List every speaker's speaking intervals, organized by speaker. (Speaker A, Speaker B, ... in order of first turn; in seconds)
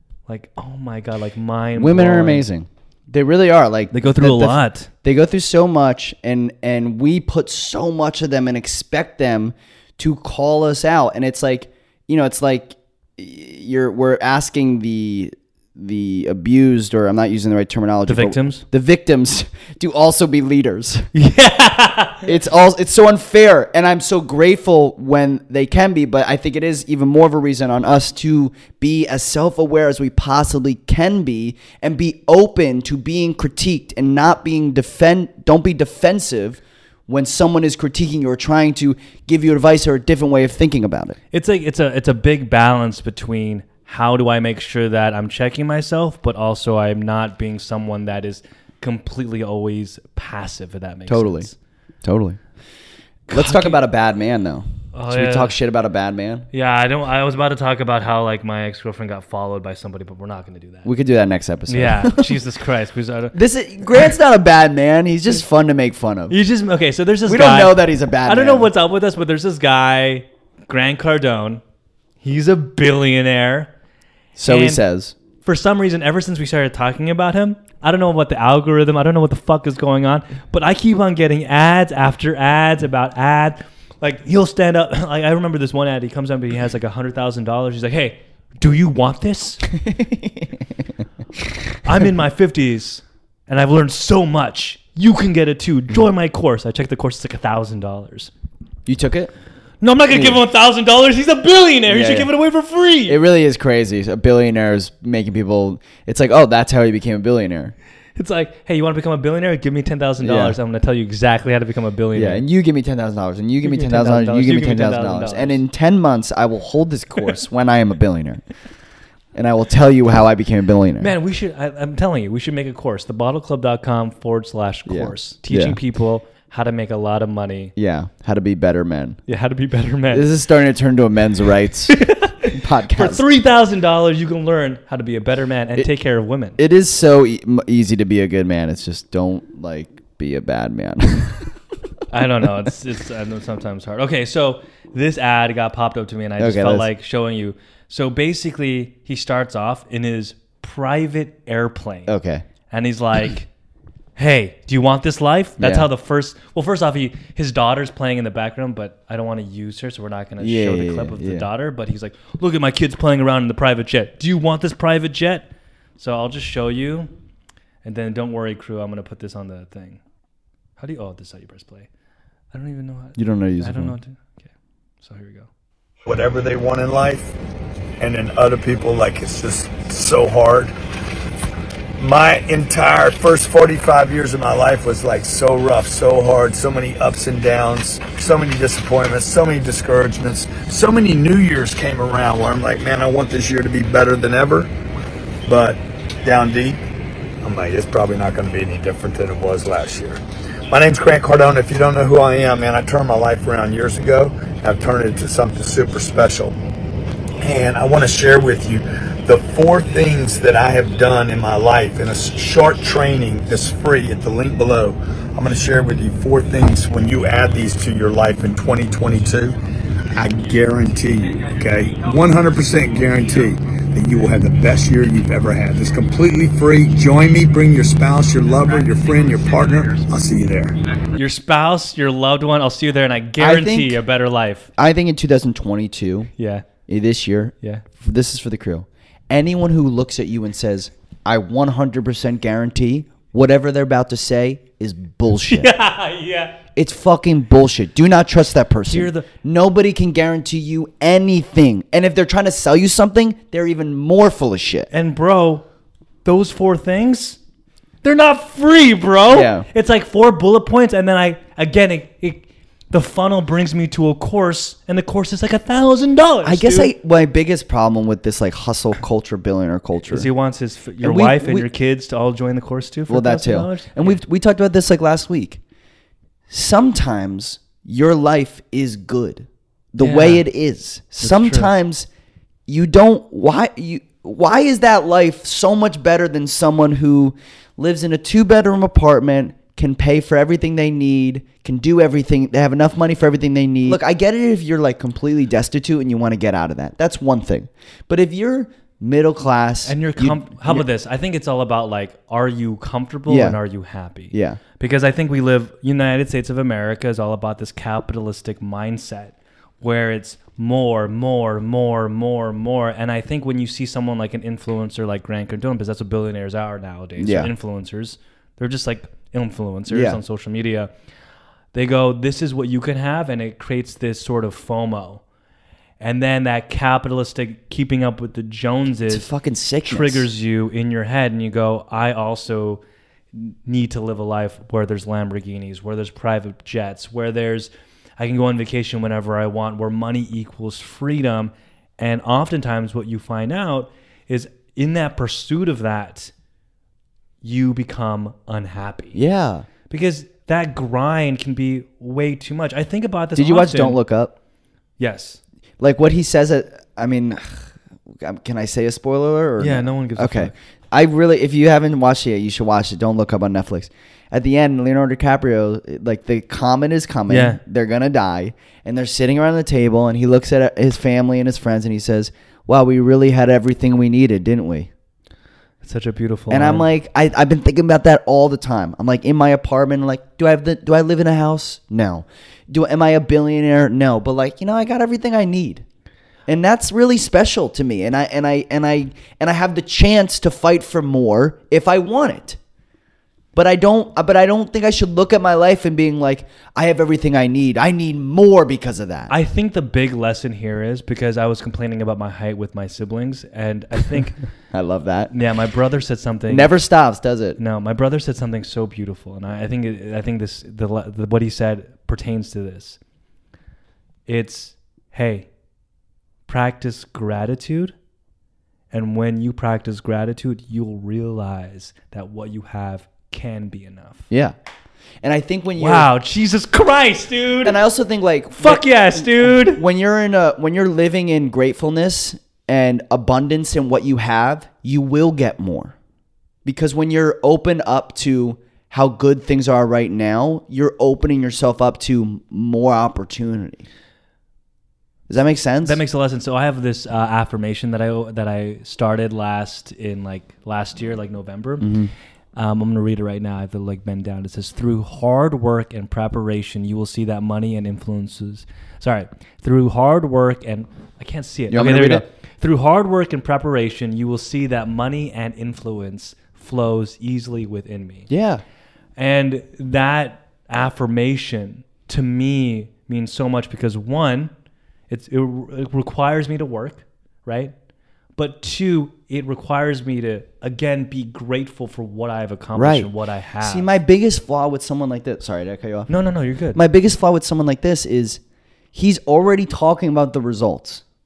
Speaker A: 0.3-2.5, 3.9-4.9, 18.1-18.6, 21.1-22.3, 41.3-51.5, 53.3-53.8, 54.9-55.5, 56.5-60.9, 61.7-64.2, 66.3-71.6, 72.2-73.7, 74.5-74.8, 75.4-89.6, 91.8-98.3, 99.8-103.2, 108.2-112.4, 113.6-115.6, 121.0-127.7, 129.3-130.3, 131.9-136.6, 142.1-152.1, 152.7-153.5, 154.2-167.1, 167.8-170.0, 170.8-171.9, 172.5-175.5, 231.1-234.7, 236.4-236.7, 245.5-246.6, 248.9-249.3, 254.9-255.7, 256.2-257.4, 258.0-266.9, 270.1-274.2, 280.0-280.4, 281.2-281.7, 299.9-320.9, 321.7-325.2, 326.0-329.3, 329.9-332.8, 333.3-346.3, 347.4-349.2, 349.9-354.0, 355.0-355.4, 359.6-360.5, 367.3-367.6, 375.8-376.9, 399.3-404.4, 405.3-406.7, 407.6-413.0, 414.3-415.5, 416.5-417.9, 418.9-424.3, 425.8-427.8, 428.6-429.8, 445.8-451.9, 452.6-468.3, 469.2-474.5, 475.1-477.7, 478.4-483.9, 486.1-486.8
Speaker B: 1.8-21.1, 22.2-41.2, 51.1-51.5, 52.0-52.4, 53.3-56.5, 60.9-62.3, 63.3-66.3, 67.3-68.7, 74.4-75.1, 89.8-90.6, 98.9-99.3, 100.1-100.4, 101.9-102.3, 103.1-107.8, 110.2-110.6, 112.2-118.4, 119.3-121.1, 124.9-125.8, 127.8-129.2, 130.1-133.2, 136.6-141.5, 146.4-146.9, 152.1-152.4, 155.6-155.9, 160.4-161.5, 173.2-173.9, 233.4-234.0, 234.8-236.3, 236.9-245.7, 246.8-254.9, 259.3-259.7, 266.4-270.3, 271.0-271.7, 273.1-275.6, 276.5-282.1, 282.7-300.8, 303.3-303.6, 304.3-304.6, 317.2-317.5, 319.9-320.2, 329.1-330.3, 349.1-349.7, 353.4-354.3, 355.8-357.7, 358.2-374.9, 376.5-385.8, 386.5-392.6, 393.6-399.3, 404.7-405.3, 406.5-407.6, 424.3-424.6, 425.2-426.1, 427.6-435.9, 436.6-443.8, 445.3-446.0, 451.8-452.1, 461.7-462.2, 468.3-468.6, 482.8-483.1, 483.6-486.1, 486.7-488.4, 488.9-491.0
Speaker C: 176.1-177.3, 178.0-180.7, 182.0-194.7, 195.5-196.8, 197.4-200.2, 200.7-206.5, 207.4-219.6, 220.2-230.8